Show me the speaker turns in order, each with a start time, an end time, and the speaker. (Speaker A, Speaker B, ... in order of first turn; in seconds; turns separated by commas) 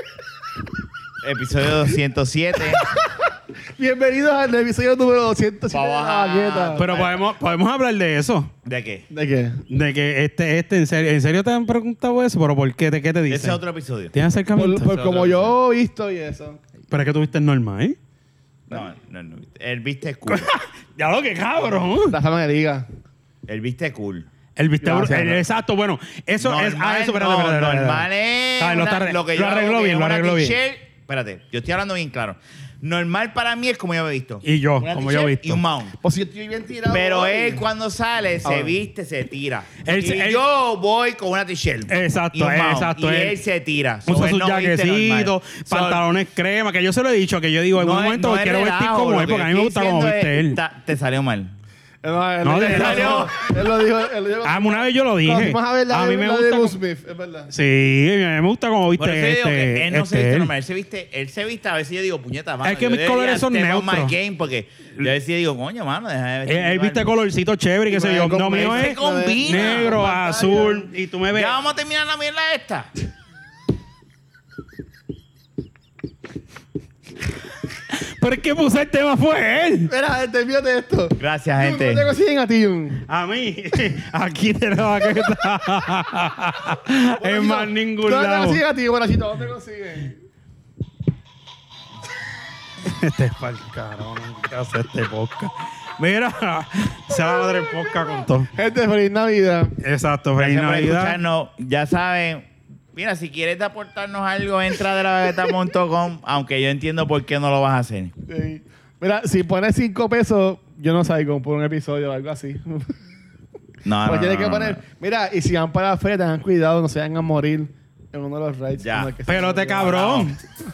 Speaker A: 1.2-2.9, Speaker B: 2.8-6.9, Speaker A: 5.7-7.2, Speaker C: 6.8-8.5, Speaker A: 8.6-9.1, Speaker B: 9.1-9.6, Speaker C: 9.7-13.6, Speaker A: 13.3-14.1, Speaker C: 14.1-15.4, Speaker B: 14.6-16.6, Speaker C: 16.9-18.0, Speaker A: 18.7-20.5, Speaker C: 20.3-22.2, Speaker B: 22.1-22.9, Speaker A: 23.5-24.3, Speaker C: 24.6-28.1, Speaker B: 24.8-25.4, Speaker A: 26.4-34.5, Speaker C: 28.6-30.6, Speaker C: 34.4-35.6, Speaker B: 34.8-35.2, Speaker A: 35.0-36.0, Speaker B: 36.0-37.6, Speaker A: 36.9-46.0, Speaker B: 38.5-38.8, Speaker C: 39.9-40.4, Speaker C: 41.9-43.4, Speaker C: 44.1-50.6, Speaker A: 47.8-51.5, Speaker B: 52.0-57.5, Speaker C: 52.4-53.3, Speaker A: 52.6-53.4, Speaker C: 54.4-56.8, Speaker C: 57.5-60.5, Speaker A: 59.0-67.1, Speaker C: 62.6-64.1, Speaker C: 66.5-71.6, Speaker B: 67.9-70.9, Speaker A: 68.5-70.0, Speaker A: 71.3-72.9, Speaker C: 77.9-79.9, Speaker B: 79.9-83.0, Speaker A: 81.2-82.1, Speaker C: 83.1-88.6, Speaker B: 87.2-90.2, Speaker C: 92.8-98.5, Speaker B: 98.5-99.7, Speaker C: 99.8-101.2, Speaker A: 100.4-108.1, Speaker B: 108.3-113.0, Speaker A: 113.8-114.8, Speaker B: 114.0-120.0, Speaker A: 118.8-119.1, Speaker C: 119.3-120.4, Speaker A: 119.8-120.3